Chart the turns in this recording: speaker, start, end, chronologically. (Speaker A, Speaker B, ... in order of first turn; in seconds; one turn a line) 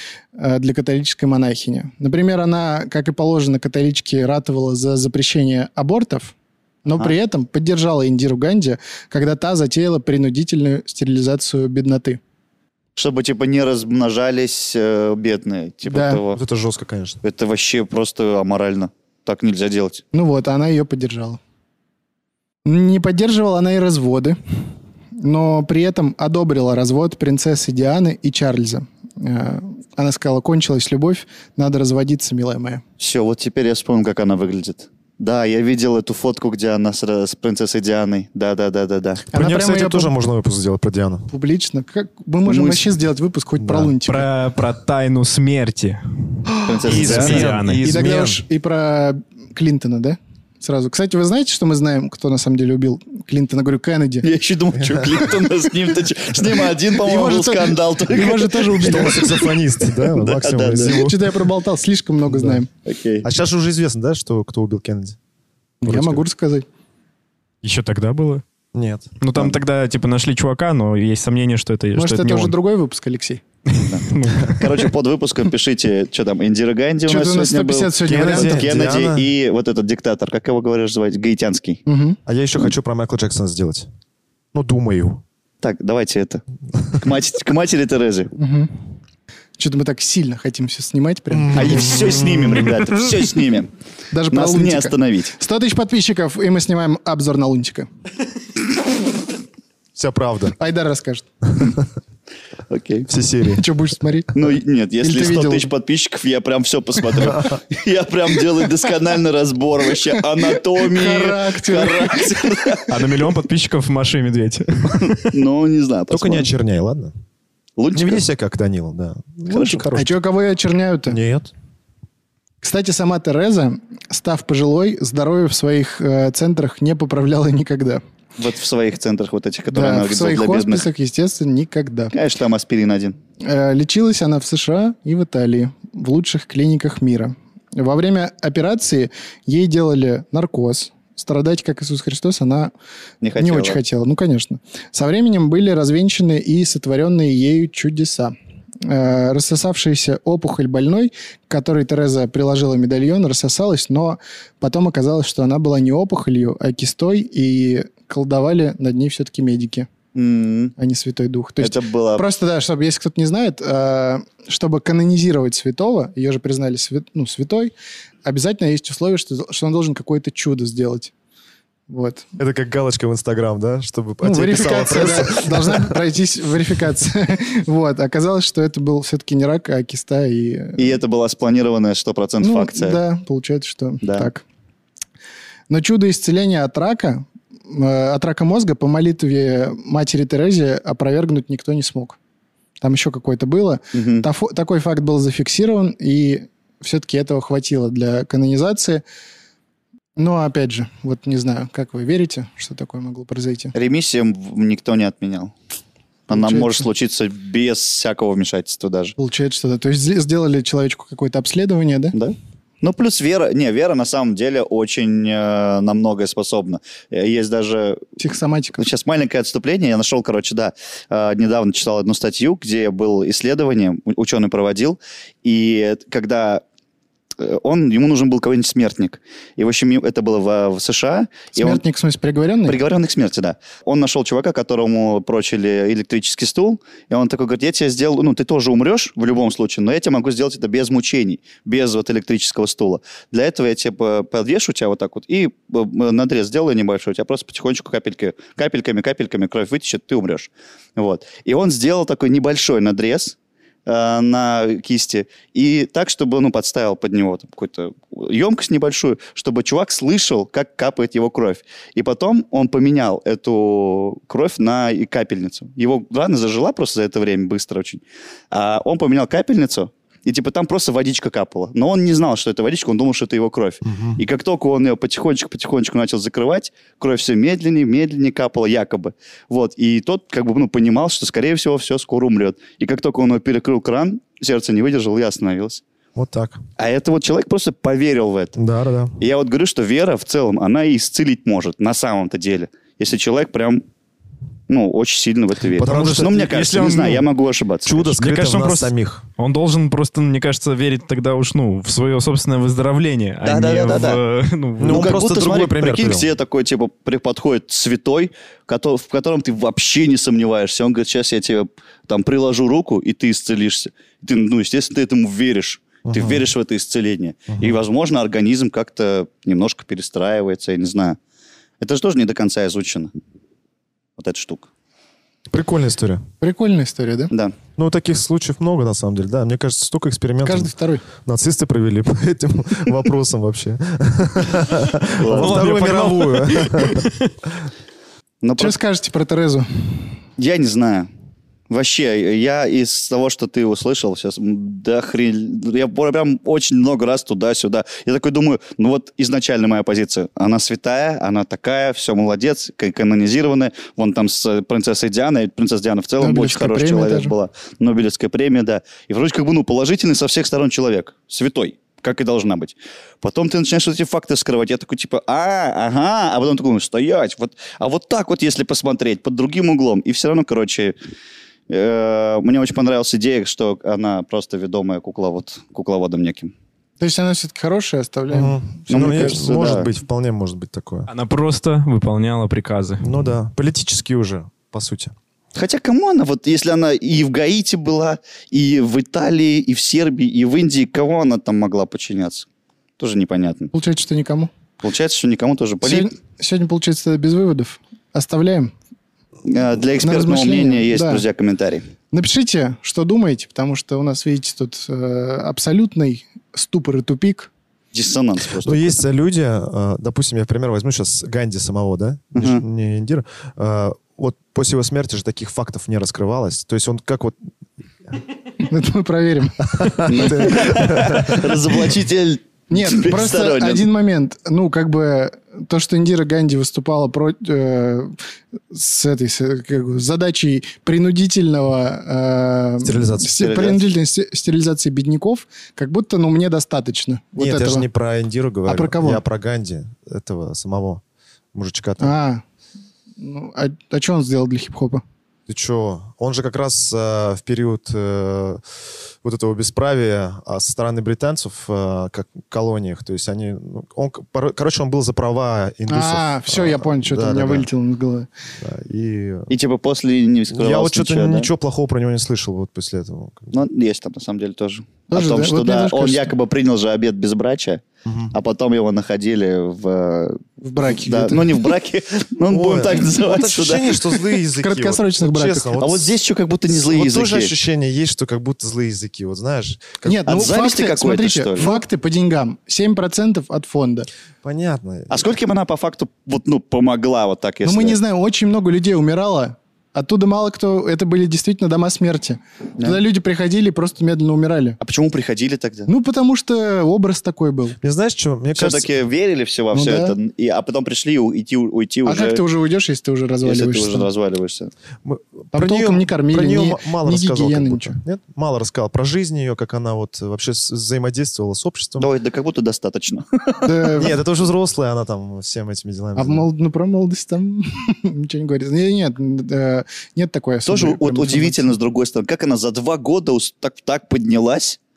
Speaker A: 0.4-12.2
Speaker B: 13.0-16.4
Speaker A: 15.9-16.2
Speaker C: 16.3-17.2
Speaker B: 17.2-20.0
Speaker A: 20.1-21.4
Speaker A: 22.6-24.4
Speaker A: 25.2-32.8
Speaker B: 33.0-39.2
Speaker C: 39.3-41.3
Speaker A: 39.3-40.1
Speaker A: 41.3-44.3
Speaker B: 42.5-42.9
Speaker C: 43.6-43.9
Speaker D: 44.0-46.0
Speaker B: 46.7-47.6
Speaker D: 46.8-48.1
Speaker C: 46.9-48.4
Speaker A: 47.8-54.3
Speaker B: 54.2-59.2
Speaker C: 54.8-55.2
Speaker A: 56.9-59.5
Speaker C: 58.8-61.4
Speaker B: 60.1-61.0
Speaker A: 60.8-62.7
Speaker C: 62.3-62.6
Speaker B: 62.9-63.3
Speaker C: 63.2-65.2
Speaker A: 65.8-66.7
Speaker C: 65.8-66.2
Speaker D: 67.6-68.4
Speaker C: 68.7-69.1
Speaker D: 69.2-72.5
Speaker A: 71.9-73.4
Speaker D: 73.7-74.9
Speaker B: 73.8-81.8
Speaker A: 77.1-78.7
Speaker C: 78.0-79.3
Speaker A: 81.9-82.2
Speaker C: 82.2-83.9
Speaker C: 84.5-85.2
Speaker B: 85.6-86.4
Speaker B: 87.0-88.3
Speaker A: 88.4-88.7
Speaker A: 89.6-92.0
Speaker C: 91.3-92.8
Speaker B: 91.5-93.7
Speaker A: 94.1-97.9
Speaker B: 94.3-95.3
Speaker C: 99.9-100.6
Speaker A: 100.6-101.3
Speaker B: 102.7-103.1
Speaker C: 103.1-103.7
Speaker A: 103.5-104.3
Speaker B: 104.3-113.1
Speaker A: 105.0-105.7
Speaker C: 107.2-107.6
Speaker A: 110.4-112.3
Speaker D: 112.9-115.3
Speaker B: 114.9-116.5
Speaker C: 116.1-117.1
Speaker B: 117.8-118.2
Speaker C: 117.9-120.2
Speaker B: 119.5-119.9
Speaker A: 119.9-121.2
Speaker C: 121.1-121.5
Speaker A: 122.6-128.0
Speaker B: 128.4-130.9
Speaker A: 129.7-132.2
Speaker B: 132.1-133.2
Speaker A: 133.4-142.7
Speaker B: 143.2-143.8
Speaker A: 143.4-159.9
Speaker B: 160.2-160.8
Speaker A: 160.8-167.7
Speaker B: 161.6-162.2
Speaker A: 168.2-171.1
Speaker A: 171.9-172.2
Speaker C: 172.4-175.9
Speaker A: 174.2-181.0
Speaker B: 174.8-175.3
Speaker B: 180.8-183.0
Speaker A: 182.4-184.4
Speaker B: 184.0-184.3
Speaker A: 185.7-192.2
Speaker A: 192.8-199.0
Speaker B: 193.9-194.2
Speaker A: 200.2-203.8
Speaker B: 203.7-205.5
Speaker B: 206.3-209.2
Speaker A: 206.3-206.8
Speaker A: 209.2-212.2
Speaker B: 212.1-218.2
Speaker A: 218.2-218.8
Speaker B: 218.8-226.6
Speaker B: 227.4-231.8
Speaker A: 231.6-232.8
Speaker B: 232.7-253.3
Speaker B: 253.9-285.8
Speaker C: 273.9-274.2
Speaker C: 286.1-286.6
Speaker B: 286.8-288.6
Speaker C: 288.6-289.2
Speaker B: 289.2-293.8
Speaker B: 294.7-298.1
Speaker C: 295.7-297.2
Speaker D: 295.8-296.2
Speaker C: 297.9-299.2
Speaker D: 298.1-305.1
Speaker B: 303.4-304.2
Speaker C: 304.8-306.3
Speaker B: 304.8-321.2
Speaker C: 316.1-316.4
Speaker B: 321.8-323.1
Speaker B: 324.2-324.7
Speaker C: 325.5-326.2
Speaker A: 326.4-327.3
Speaker C: 327.8-337.1
Speaker A: 330.4-331.0
Speaker B: 335.2-335.6
Speaker D: 335.2-337.3
Speaker B: 338.4-338.8
Speaker A: 338.6-340.1
Speaker B: 340.4-341.1
Speaker B: 341.7-371.0
Speaker A: 356.2-357.3
Speaker B: 371.7-376.5
Speaker A: 377.0-379.8
Speaker C: 378.3-381.1
Speaker B: 378.9-379.9
Speaker D: 381.1-383.1
Speaker C: 383.0-385.1
Speaker B: 385.6-392.5
Speaker B: 393.0-393.7
Speaker A: 393.7-394.5
Speaker B: 394.8-396.1
Speaker A: 395.8-398.7
Speaker B: 399.5-401.8
Speaker A: 400.0-401.2
Speaker A: 402.1-407.5
Speaker B: 407.9-409.0
Speaker C: 408.6-417.4
Speaker B: 412.3-412.6
Speaker A: 418.6-420.7
Speaker C: 419.7-421.6
Speaker B: 420.1-423.9
Speaker A: 422.7-428.1
Speaker A: 428.7-437.9
Speaker C: 432.8-433.4
Speaker B: 433.2-433.8
Speaker C: 437.4-441.0
Speaker A: 438.6-439.2
Speaker C: 441.5-442.1
Speaker A: 442.0-442.4
Speaker A: 443.2-445.0
Speaker C: 445.5-448.6
Speaker C: 449.2-457.7
Speaker A: 455.9-458.3
Speaker C: 458.6-459.5
Speaker B: 459.5-461.5
Speaker C: 460.5-463.6
Speaker B: 463.5-474.0
Speaker A: 465.1-466.3
Speaker C: 468.1-468.3
Speaker A: 470.6-471.7
Speaker C: 472.5-476.1
Speaker A: 474.6-475.8
Speaker B: 475.8-477.6
Speaker C: 476.7-480.2
Speaker A: 480.0-484.1
Speaker B: 480.2-481.8
Speaker C: 484.4-485.2
Speaker B: 485.1-488.0
Speaker A: 487.6-494.8
Speaker B: 494.8-495.9
Speaker A: 495.9-497.8
Speaker C: 497.8-498.9
Speaker B: 498.6-502.4
Speaker A: 499.7-500.1
Speaker A: 502.1-504.1
Speaker B: 503.4-504.7
Speaker C: 505.0-512.1
Speaker A: 505.5-508.0
Speaker B: 512.0-513.7
Speaker A: 513.6-514.1
Speaker C: 513.9-516.5
Speaker A: 516.1-521.7
Speaker B: 520.6-524.8